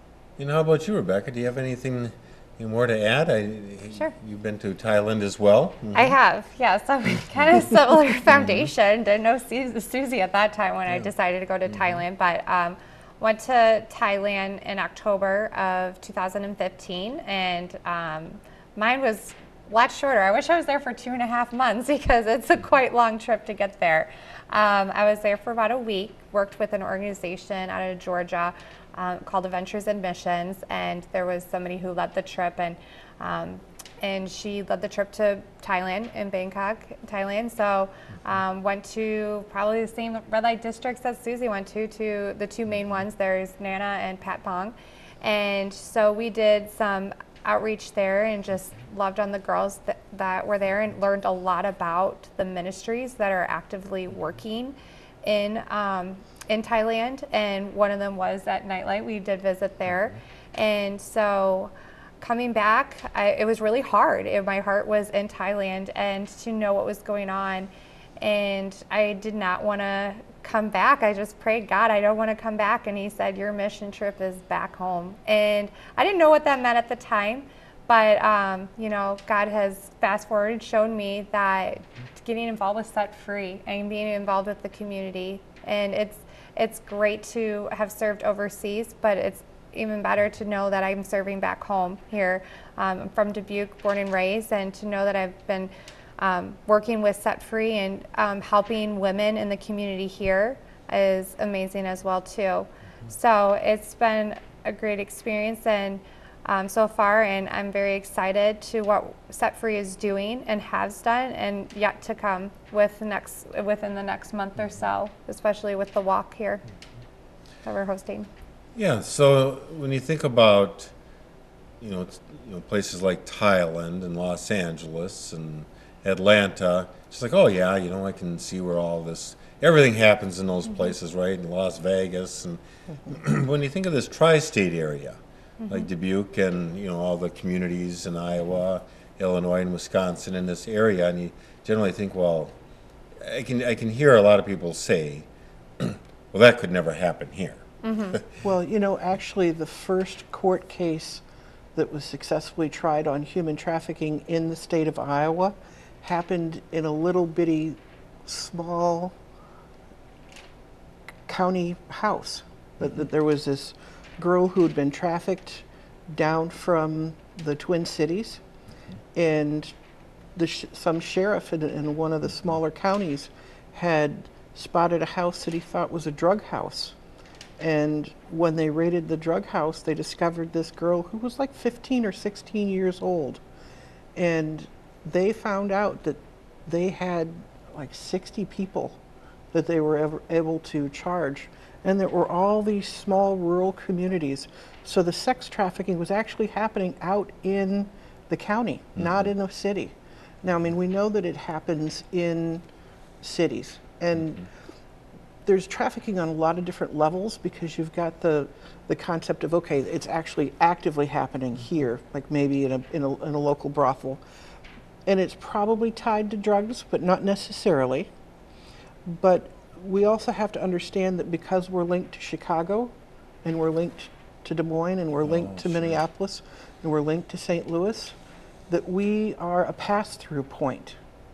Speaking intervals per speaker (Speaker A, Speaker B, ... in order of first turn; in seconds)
Speaker A: 0.4-6.2, 118.8-120.9, 121.8-142.6, 143.2-148.3, 225.3-225.9
Speaker B: 5.9-116.6, 117.6-118.3, 135.6-135.9, 147.8-148.2
Speaker C: 148.4-151.2, 151.8-159.1, 161.3-168.4, 169.1-169.7, 170.4-176.9, 177.6-183.4, 184.2-189.0, 189.5-202.6, 203.2-204.5, 205.5-214.2, 215.1-218.1, 219.1-222.9, 223.4-228.2, 228.7-231.0